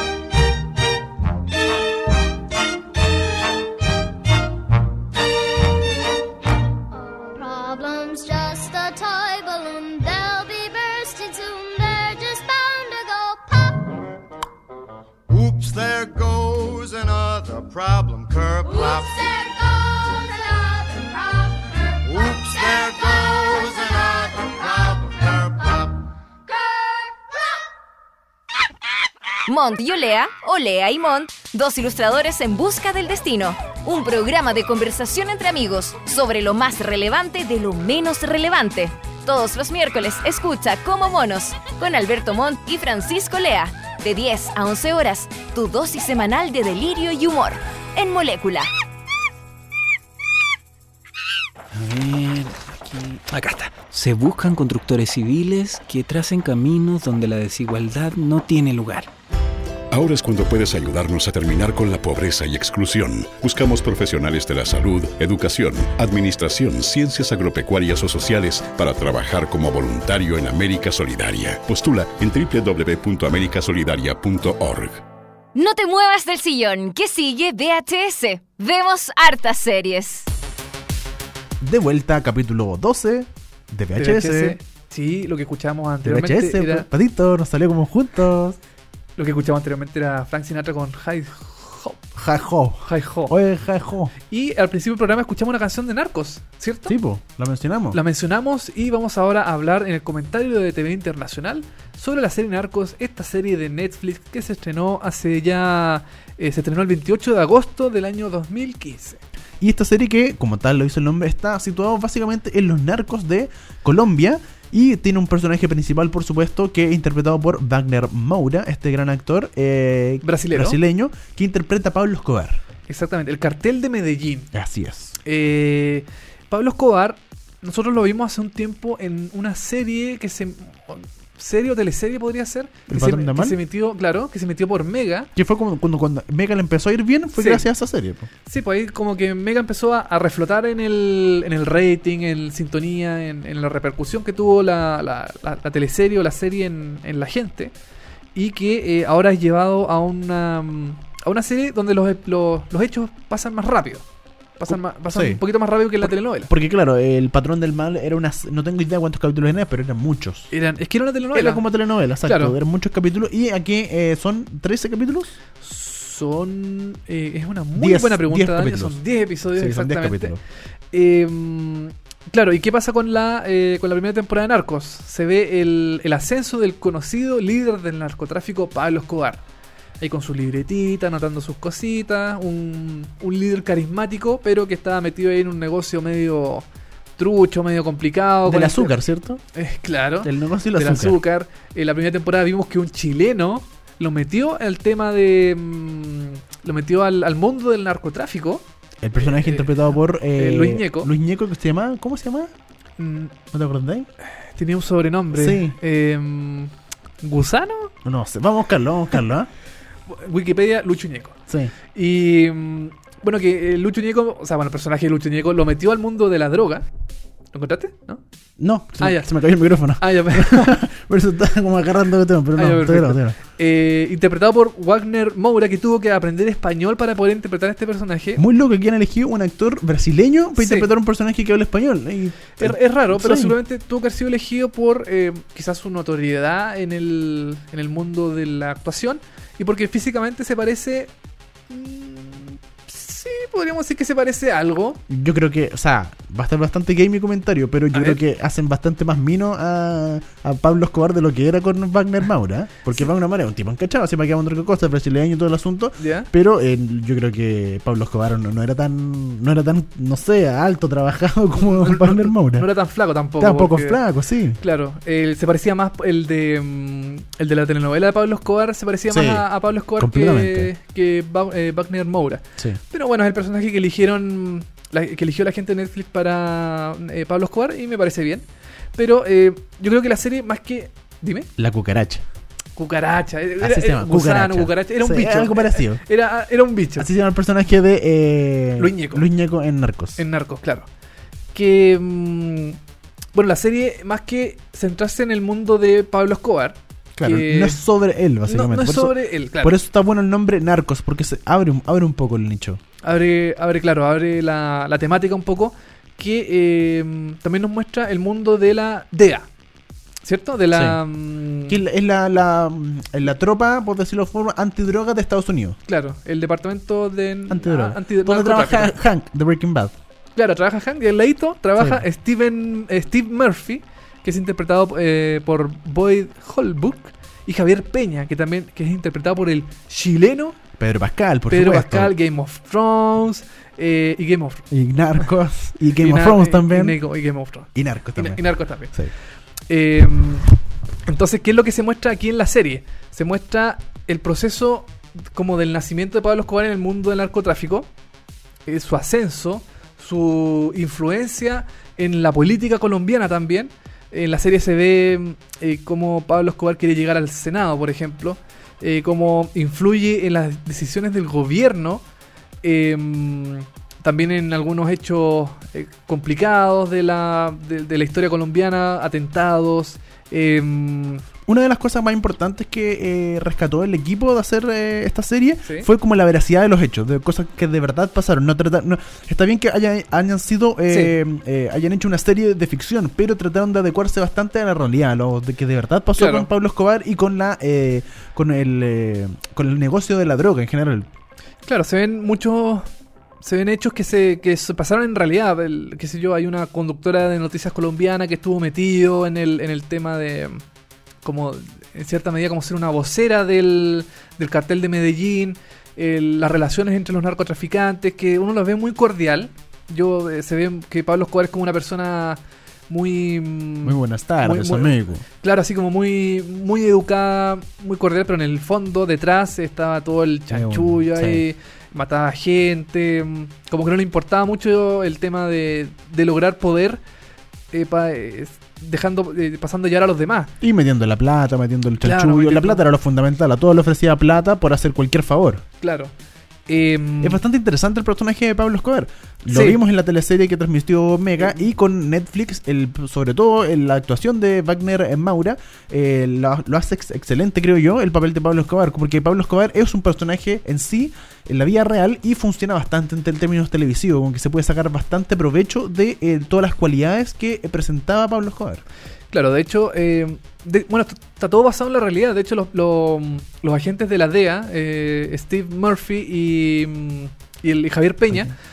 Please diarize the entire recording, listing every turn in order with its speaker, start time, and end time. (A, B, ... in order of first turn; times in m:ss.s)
0:06.9-0:14.1 A
0:15.3-0:19.2 B
0:18.6-0:25.9 A
0:22.0-0:26.0 B
0:26.5-0:27.5 A
0:29.5-0:48.7 C
0:51.7-0:59.1 D
0:59.9-1:15.0 E
1:15.6-1:20.3 C
1:21.6-1:24.6 F
1:24.0-1:26.9 G
1:26.0-1:28.6 F
1:29.2-1:32.0 G
1:32.2-1:34.1 F
1:32.8-1:33.4 G
1:34.3-1:37.0 G
1:36.9-1:38.0 F
1:37.9-1:49.2 G
1:49.6-2:02.6 F
2:00.2-2:00.8 G
2:02.9-2:04.5 G
2:04.5-2:05.1 F
2:05.2-2:15.3 G
2:12.9-2:13.6 F
2:15.4-2:18.3 F
2:17.4-2:17.7 G
2:18.5-2:27.7 G
2:28.4-2:34.0 G
2:34.6-2:36.5 G
2:34.7-2:35.4 F
2:36.0-2:40.5 F
2:40.5-2:41.6 G
2:41.3-2:45.3 F
2:42.2-2:42.6 G
2:45.6-2:50.4 G
2:47.8-2:49.0 F
2:49.6-2:50.4 F
2:50.9-2:59.4 G
3:00.0-3:06.7 G
3:07.2-3:09.0 G
3:08.4-3:09.4 F
3:09.6-3:18.6 G
3:10.2-3:11.2 F
3:19.0-3:22.5 F
3:19.2-3:21.1 G
3:23.0-3:23.3 G
3:23.5-3:24.1 F
3:24.6-3:26.7 G
3:25.3-3:25.8 F
3:27.2-3:27.9 G
3:28.0-3:29.5 F
3:30.1-3:31.4 G
3:31.9-3:36.9 G
3:37.5-3:38.2 G
3:38.6-3:43.4 F
3:39.0-3:40.8 G
3:42.6-3:48.4 G
3:48.4-3:53.6 F
3:50.6-3:50.9 G
3:52.6-4:01.1 G
4:01.7-4:05.0 G
4:05.1-4:22.7 F
4:07.9-4:08.2 G
4:16.0-4:16.3 G
4:21.6-4:24.0 G
4:23.4-4:24.6 F
4:24.6-4:38.4 G
4:29.1-4:30.7 F
4:39.0-4:41.5 G
4:41.6-4:42.2 F
4:42.8-4:47.1 G
4:43.6-4:46.0 F
4:47.0-4:50.2 F
4:48.8-4:49.3 G
4:50.2-4:50.9 G
4:51.5-4:52.8 G
4:53.4-4:57.8 G
4:57.2-5:02.8 F
4:58.5-4:59.8 G
5:03.0-5:09.5 G
5:10.2-5:11.8 G
5:10.7-5:11.0 F
5:11.6-5:15.8 F
5:15.9-5:19.0 G
5:17.5-5:19.9 F
5:20.4-5:30.6 G
5:21.8-5:22.0 F
5:30.8-5:32.1 F
5:31.5-5:34.6 G
5:34.7-5:37.0 F
5:36.0-5:38.9 G
5:37.8-5:39.1 F
5:39.7-5:40.5 G
5:41.1-5:47.9 G
5:48.7-6:02.0 G
6:02.6-6:11.2 G
6:11.5-6:31.1 F
6:20.9-6:21.2 G
6:26.2-6:26.5 G
6:31.7-6:32.8 G
6:33.4-6:40.6 G
6:41.2-7:07.0 G
6:53.8-6:55.2 F
7:00.5-7:01.4 F
7:07.7-7:10.5 G
7:10.6-7:15.6 F
7:12.0-7:12.8 G
7:15.8-7:16.1 G
7:16.7-7:17.4 G
7:17.2-7:38.8 F
7:19.5-7:19.8 G
7:39.3-7:48.5 G